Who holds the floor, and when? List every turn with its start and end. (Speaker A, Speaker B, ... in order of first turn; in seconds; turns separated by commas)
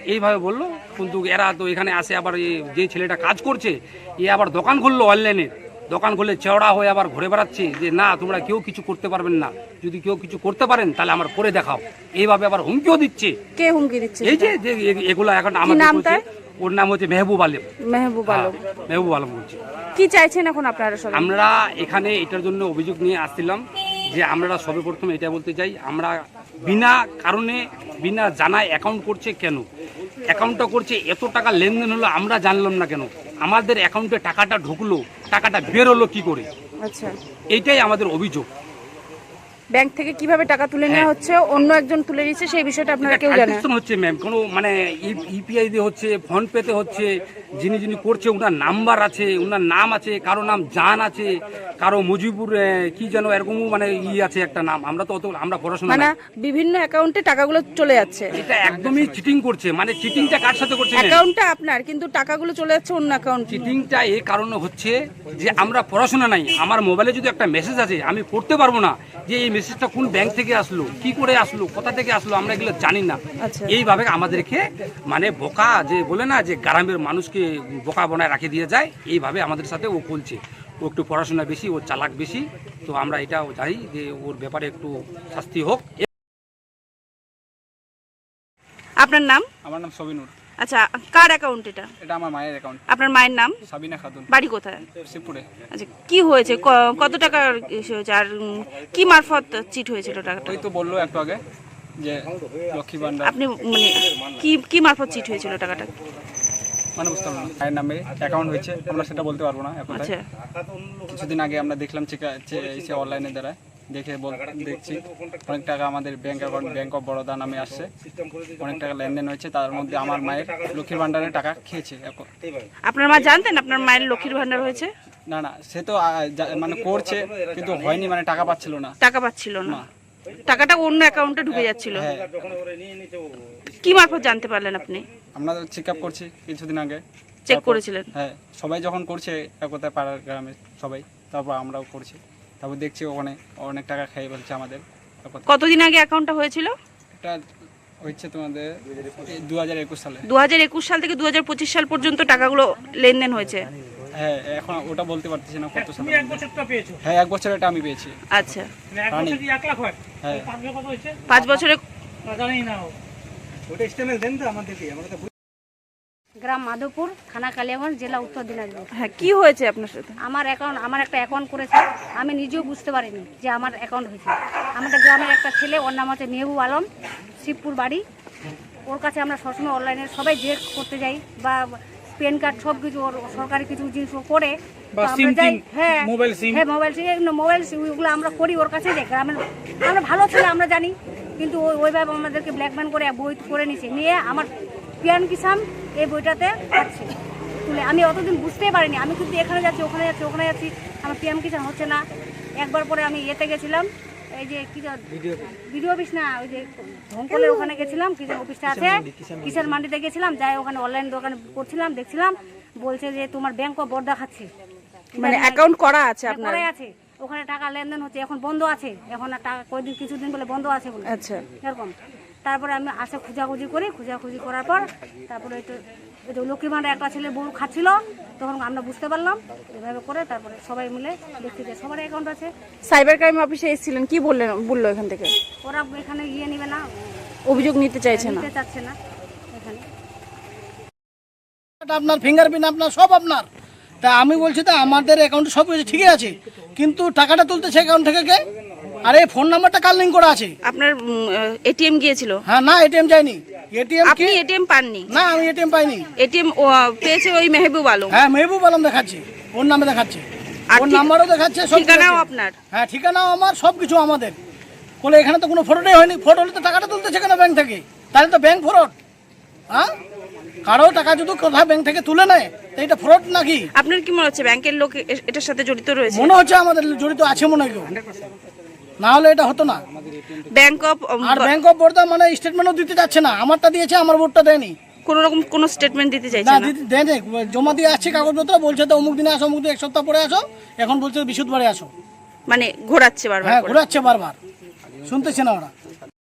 Speaker A: 0.1-13.3, Speaker B: 13.6-14.5, Speaker A: 14.2-17.6, Speaker B: 15.6-16.2, Speaker B: 17.9-18.5, Speaker A: 18.2-19.6, Speaker B: 19.9-21.3, Speaker A: 21.1-29.6, Speaker A: 30.3-36.5, Speaker B: 36.8-37.1, Speaker A: 37.5-38.5, Speaker B: 39.7-43.6, Speaker A: 43.0-56.1, Speaker B: 55.9-58.3, Speaker A: 58.3-61.2, Speaker C: 58.5-59.2, Speaker B: 60.9-63.7, Speaker A: 63.5-86.0, Speaker B: 73.4-73.7, Speaker B: 89.0-89.5, Speaker C: 89.6-90.3, Speaker B: 90.6-91.9, Speaker C: 92.0-92.8, Speaker B: 92.9-93.5, Speaker C: 93.6-94.3, Speaker B: 94.3-94.9, Speaker C: 95.0-95.5, Speaker B: 95.7-100.5, Speaker C: 100.4-101.4, Speaker C: 102.0-103.3, Speaker B: 103.2-105.9, Speaker C: 107.0-110.1, Speaker B: 109.9-110.2, Speaker C: 111.1-117.9, Speaker C: 118.6-122.3, Speaker B: 122.9-124.9, Speaker C: 125.3-128.9, Speaker B: 129.0-129.8, Speaker B: 130.4-132.0, Speaker C: 131.6-132.4, Speaker B: 133.8-135.0, Speaker C: 135.3-145.4, Speaker B: 137.5-138.1, Speaker B: 145.5-146.7, Speaker C: 148.0-150.2, Speaker B: 150.2-153.7, Speaker C: 154.1-156.5, Speaker D: 156.2-156.9, Speaker C: 157.0-158.5, Speaker B: 158.3-158.7, Speaker C: 159.1-159.4, Speaker D: 159.4-159.9, Speaker C: 160.2-160.5, Speaker D: 160.4-161.2, Speaker B: 161.3-161.8, Speaker D: 162.3-162.9, Speaker E: 166.4-168.9, Speaker B: 168.9-170.2, Speaker E: 170.2-176.8, Speaker E: 177.4-178.0, Speaker E: 178.9-194.5, Speaker E: 195.0-202.0, Speaker E: 202.6-203.9, Speaker E: 204.4-214.5, Speaker B: 207.3-207.9, Speaker B: 215.2-216.7, Speaker E: 215.2-215.7, Speaker E: 216.2-221.9, Speaker B: 221.0-221.4, Speaker E: 222.4-225.7, Speaker E: 226.3-232.5, Speaker B: 232.8-235.3, Speaker E: 235.6-237.1, Speaker B: 237.5-238.5, Speaker E: 238.1-238.9, Speaker E: 239.5-239.8, Speaker D: 241.8-243.5, Speaker D: 244.0-248.4, Speaker D: 249.0-250.5, Speaker B: 250.6-252.4, Speaker D: 252.5-254.4, Speaker B: 254.0-255.1, Speaker D: 255.1-256.1, Speaker B: 256.2-258.2, Speaker D: 258.1-260.2, Speaker B: 260.7-262.5, Speaker D: 260.8-264.4, Speaker D: 265.0-268.9, Speaker D: 270.6-273.6, Speaker B: 273.8-276.4, Speaker D: 276.1-277.9, Speaker D: 279.0-279.8, Speaker B: 280.5-281.5, Speaker D: 281.2-284.8, Speaker B: 285.0-286.7, Speaker D: 286.4-291.9, Speaker B: 292.5-293.9, Speaker D: 293.4-294.4, Speaker D: 295.0-295.7